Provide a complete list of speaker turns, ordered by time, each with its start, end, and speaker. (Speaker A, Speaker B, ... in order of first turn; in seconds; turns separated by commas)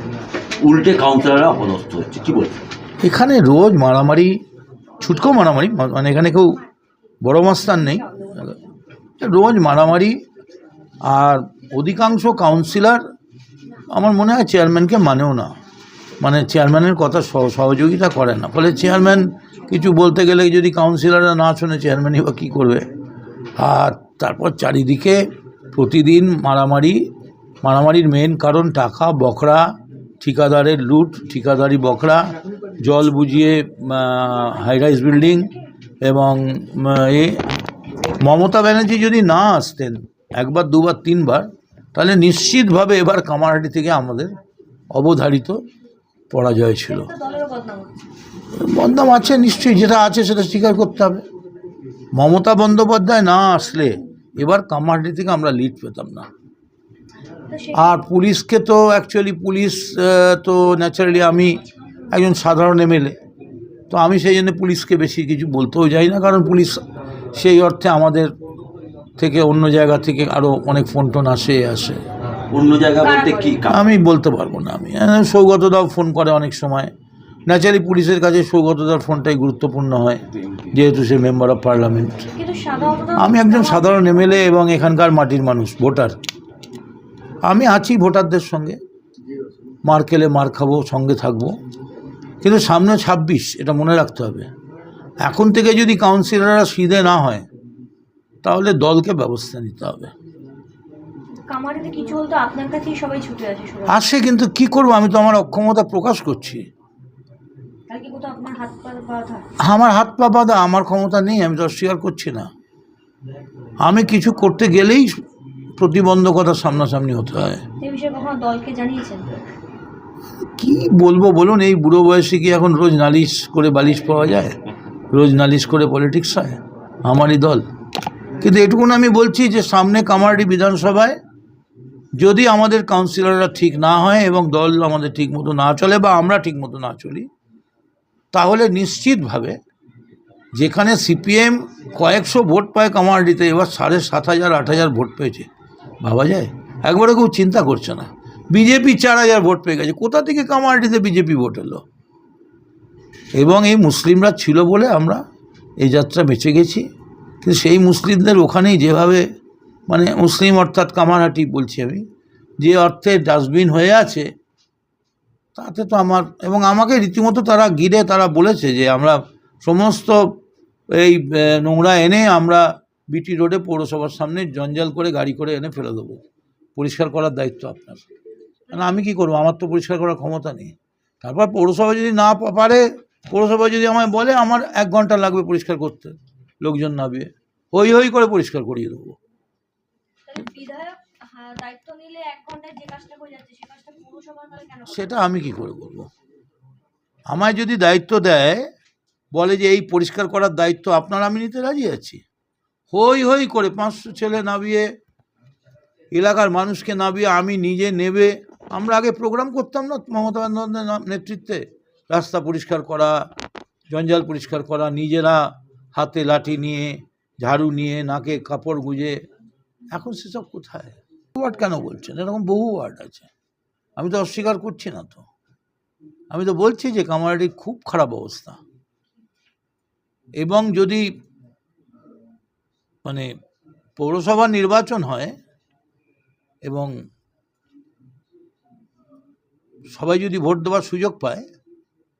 Speaker A: 0.6-2.6, Speaker B: 3.0-4.4, Speaker B: 5.0-6.6, Speaker B: 7.2-8.6, Speaker C: 8.1-8.3, Speaker B: 9.2-10.2, Speaker B: 11.0-13.0, Speaker B: 13.9-15.5, Speaker B: 16.2-22.9, Speaker B: 23.6-27.1, Speaker B: 27.6-29.6, Speaker B: 30.2-32.2, Speaker B: 32.8-37.4, Speaker B: 38.2-44.3, Speaker B: 44.9-45.6, Speaker B: 46.3-47.1, Speaker C: 46.9-48.0, Speaker B: 48.5-51.2, Speaker B: 52.1-56.3, Speaker C: 57.5-58.0, Speaker B: 57.7-63.1, Speaker B: 63.9-66.8, Speaker B: 67.3-68.3, Speaker B: 69.2-72.0, Speaker A: 72.5-73.9, Speaker C: 73.0-73.6, Speaker B: 73.7-76.9, Speaker B: 77.5-80.2, Speaker B: 80.7-82.3, Speaker C: 82.3-84.4, Speaker B: 83.2-86.2, Speaker B: 87.4-88.8, Speaker B: 89.8-91.6, Speaker B: 92.4-94.5, Speaker B: 95.2-97.4, Speaker B: 98.4-100.1, Speaker C: 101.5-104.0, Speaker B: 103.9-106.7, Speaker C: 107.9-109.4, Speaker B: 109.6-112.5, Speaker B: 113.8-115.1, Speaker B: 115.8-117.6, Speaker C: 117.8-119.3, Speaker B: 120.6-124.5, Speaker B: 125.1-127.6, Speaker B: 128.4-131.2, Speaker B: 132.1-137.3, Speaker B: 138.3-139.6, Speaker B: 140.5-145.5, Speaker B: 146.0-151.8, Speaker B: 153.3-155.2, Speaker B: 155.8-156.8, Speaker B: 157.4-159.2, Speaker B: 159.9-162.0, Speaker B: 162.6-164.3, Speaker B: 165.6-170.3, Speaker B: 170.9-176.2, Speaker B: 176.8-178.1, Speaker B: 178.7-189.2, Speaker C: 190.3-195.2, Speaker B: 194.9-196.1, Speaker B: 197.3-198.7, Speaker B: 199.3-202.2, Speaker B: 202.9-204.9, Speaker B: 206.1-213.3, Speaker B: 213.9-219.2, Speaker B: 219.9-223.3, Speaker B: 224.0-225.2, Speaker B: 226.3-228.6, Speaker B: 230.4-231.0, Speaker B: 233.0-233.3, Speaker B: 234.0-235.3, Speaker B: 236.6-236.9, Speaker B: 239.9-241.5